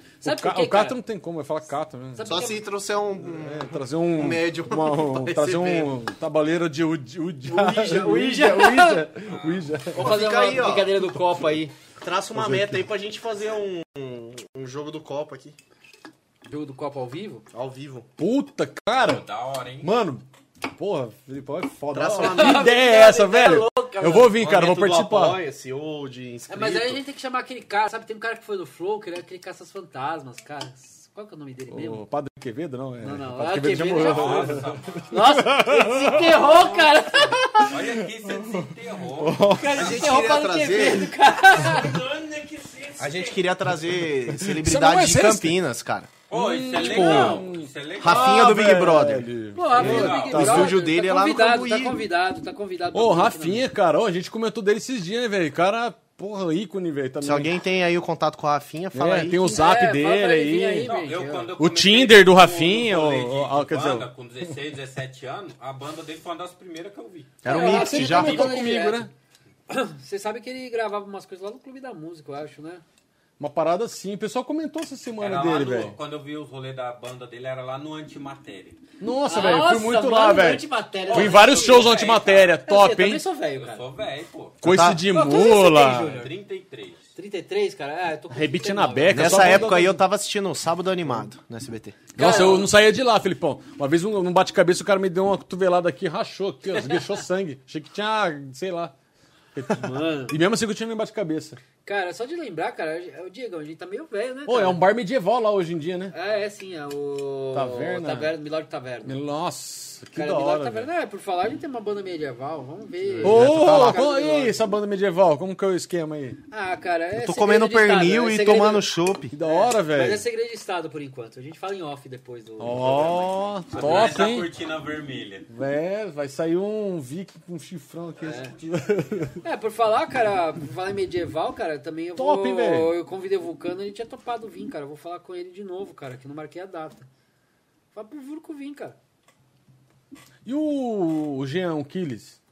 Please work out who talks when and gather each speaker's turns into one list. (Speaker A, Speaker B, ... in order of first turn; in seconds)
Speaker A: 0.2-1.0, 2.2-2.6, 7.5-9.1, 9.9-11.7, 16.5-17.4, 22.1-24.4, 26.5-32.0, 33.0-37.7, 39.5-42.0, 49.5-53.7, 59.5-61.5, 67.5-69.1, 69.7-72.8, 79.3-82.0, 82.7-83.8, 85.1-86.3, 87.2-89.8, 92.2-92.7, 96.8-97.1, 99.8-100.4, 101.8-104.8, 106.1-109.2, 110.1-114.6, 116.5-118.9, 119.4-124.2, 128.2-128.6, 129.4-137.1, 137.9-139.0
Speaker B: 0.2-2.5, 3.2-10.2, 12.3-12.9, 18.2-19.2, 19.8-25.4, 31.7-36.6, 37.5-39.9, 44.3-45.6, 46.3-50.8, 52.9-57.5, 58.9-60.9, 61.6-64.1, 67.5-69.1, 73.4-76.0, 79.0-83.2, 84.6-86.2, 88.3-90.0, 92.2-98.9, 99.5-101.6, 104.5-106.1, 107.5-108.3, 109.0-110.9, 113.2-116.4, 119.3-120.2, 122.6-124.5, 125.5-129.4, 132.2-132.9, 140.4-142.4
Speaker C: 2.2-5.9, 9.9-10.9, 12.0-15.6, 17.5-18.1, 21.9-22.7, 24.3-27.0, 39.7-41.1, 43.0-46.1, 46.7-52.0, 57.2-59.6, 67.4-68.6, 84.6-85.0, 89.1-92.0, 113.2-114.0, 117.2-119.4
Speaker D: 9.3-9.7, 19.0-19.9, 33.9-35.2, 36.4-40.1, 46.3-48.6, 49.7-50.4, 60.8-67.5, 75.2-78.8, 81.1-82.6, 83.5-84.6, 85.8-87.1, 123.7-125.5
Speaker E: 41.5-43.5